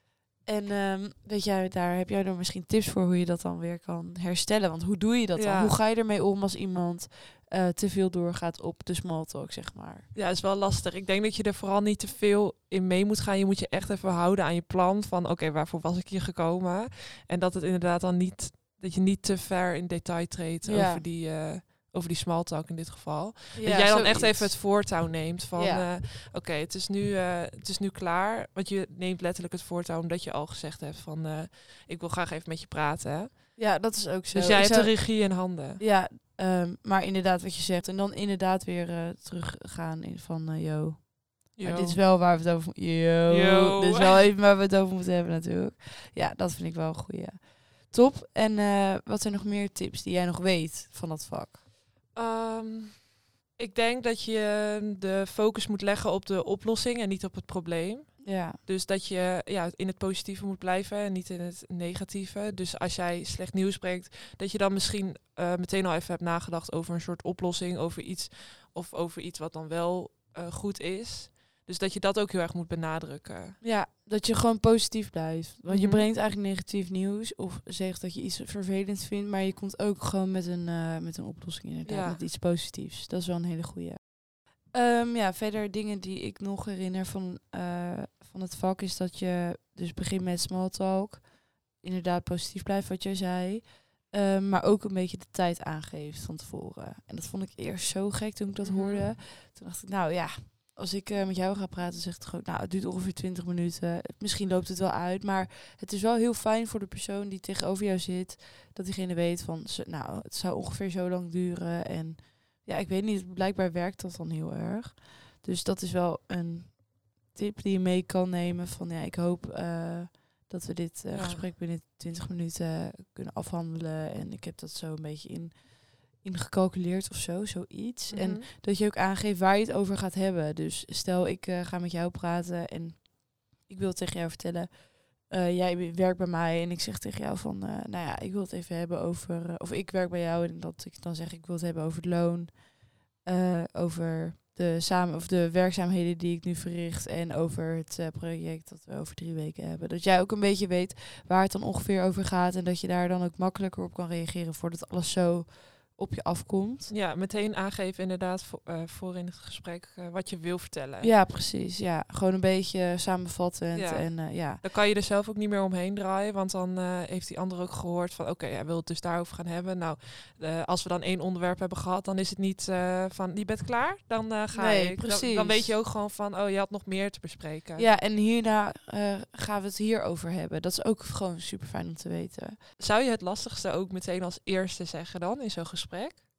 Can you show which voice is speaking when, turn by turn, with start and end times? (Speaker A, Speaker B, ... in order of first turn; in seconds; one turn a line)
Speaker A: 0.4-10.1
Speaker B: 5.3-5.8
Speaker B: 10.1-33.6
Speaker A: 20.6-21.1
Speaker A: 23.5-24.9
Speaker A: 25.5-25.9
Speaker A: 33.6-51.6
Speaker B: 34.3-35.8
Speaker B: 41.5-42.0
Speaker B: 43.3-44.2
Speaker B: 52.1-73.6
Speaker A: 58.2-58.6
Speaker A: 73.6-156.9
Speaker B: 75.7-76.0
Speaker B: 81.8-82.2
Speaker B: 98.6-99.0
Speaker B: 121.1-121.5
Speaker B: 128.1-128.5
Speaker B: 156.9-161.1
Speaker A: 161.0-164.6
Speaker B: 163.7-177.9
Speaker A: 174.5-175.8
Speaker A: 177.8-182.6
Speaker B: 182.8-186.2